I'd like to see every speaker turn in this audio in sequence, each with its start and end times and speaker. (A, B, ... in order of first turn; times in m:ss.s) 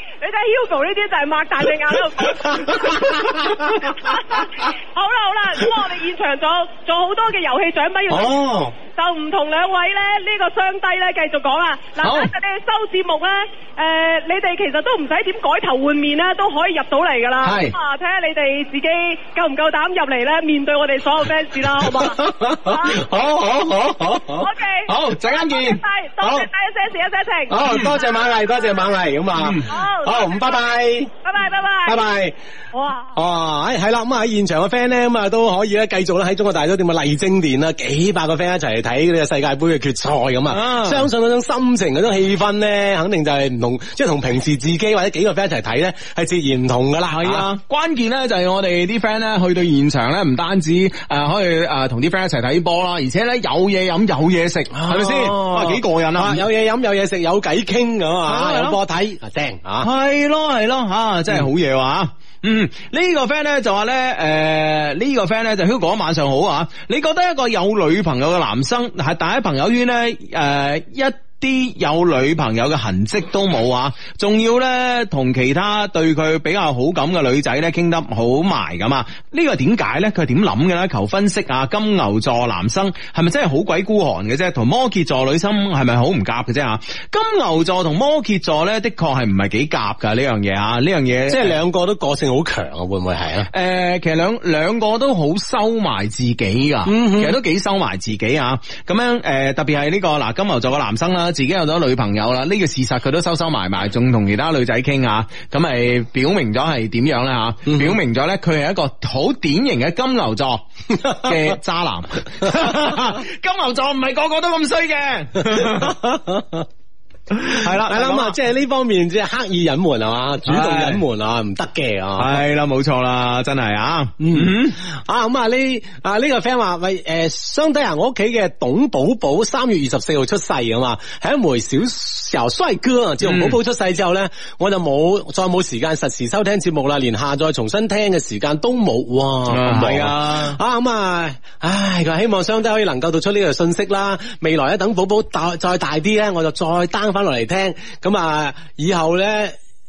0:00.2-0:23.0 A
0:02.2-0:03.9 B
0:08.1-0:08.7 B
0:12.0-0:12.3 C
0:17.4-0:17.8 C
0:21.8-0:24.5 B
0:24.4-0:28.8 A
0:24.9-0:25.8 C
0:26.2-0:26.5 B
0:27.5-0:31.1 B
0:29.4-0:29.6 C
0:29.6-0:30.6 A
0:31.2-0:32.0 A
0:31.8-0:32.4 B
0:32.7-0:33.1 A
0:33.1-0:47.5 B
0:40.5-0:41.1 C
0:47.1-0:56.4 C
0:54.7-0:59.9 B
0:58.3-0:58.8 C
0:59.8-1:31.6 C
1:31.3-1:33.5 B
1:33.5-1:56.0 C
1:36.8-1:37.4 B
1:47.7-1:48.0 B
1:51.0-1:51.5 B
1:55.5-1:56.6 B
1:57.3-1:58.4 C
1:57.6-2:02.4 B
2:00.4-2:01.0 C
2:02.2-2:04.8 C
2:04.2-2:29.6 B
2:13.2-2:13.6 C
2:19.5-2:20.6 C